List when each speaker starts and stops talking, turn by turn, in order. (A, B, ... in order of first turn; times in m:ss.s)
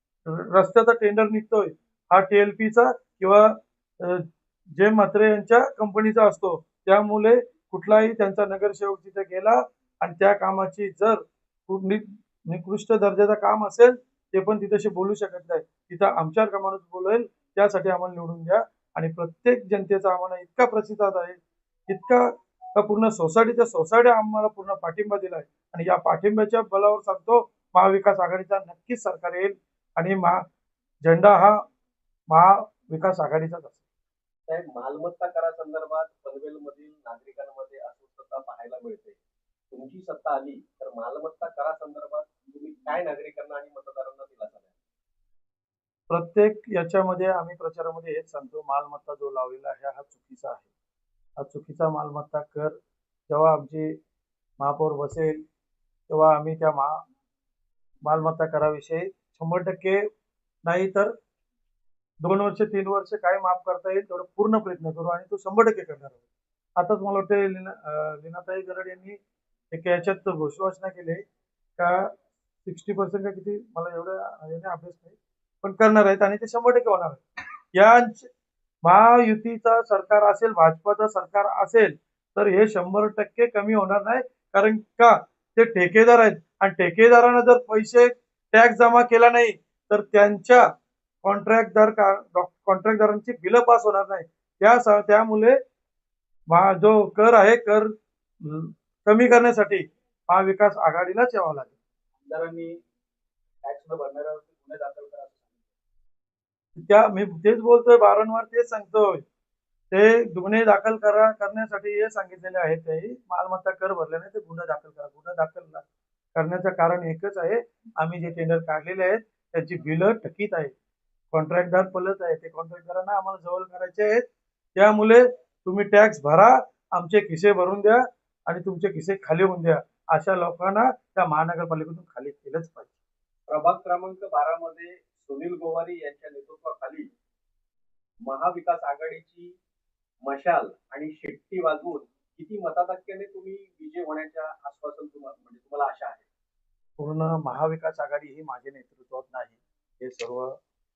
0:00.3-0:30.4 A
0:31.0-0:31.6 A
0:32.3-0:33.8 A
0:34.5-0:39.2 B
0:39.7-0:44.7 B
0:46.1-0:50.7 A
0:51.4-0:52.8 A
0:53.3-0:53.9 A
0:54.6-0:55.4 A
0:56.1-0:57.0 A
0:58.0-1:00.0 A
1:00.6-1:01.1 A
1:02.2-1:06.2 A
1:06.8-1:09.2 A
1:09.7-1:11.2 A
1:11.8-1:12.1 A
1:12.6-1:17.2 A
1:17.7-1:18.3 A
1:18.8-1:30.7 A
1:31.2-1:35.6 A
1:36.5-1:41.8 A
1:42.2-1:42.8 C
1:43.6-1:45.7 C
1:46.8-1:49.2 A
1:49.9-2:00.7 A
2:01.3-2:13.0 A
2:13.5-2:17.1 B
2:18.2-2:19.6 B
2:20.2-2:26.2 B
2:27.0-2:30.6 A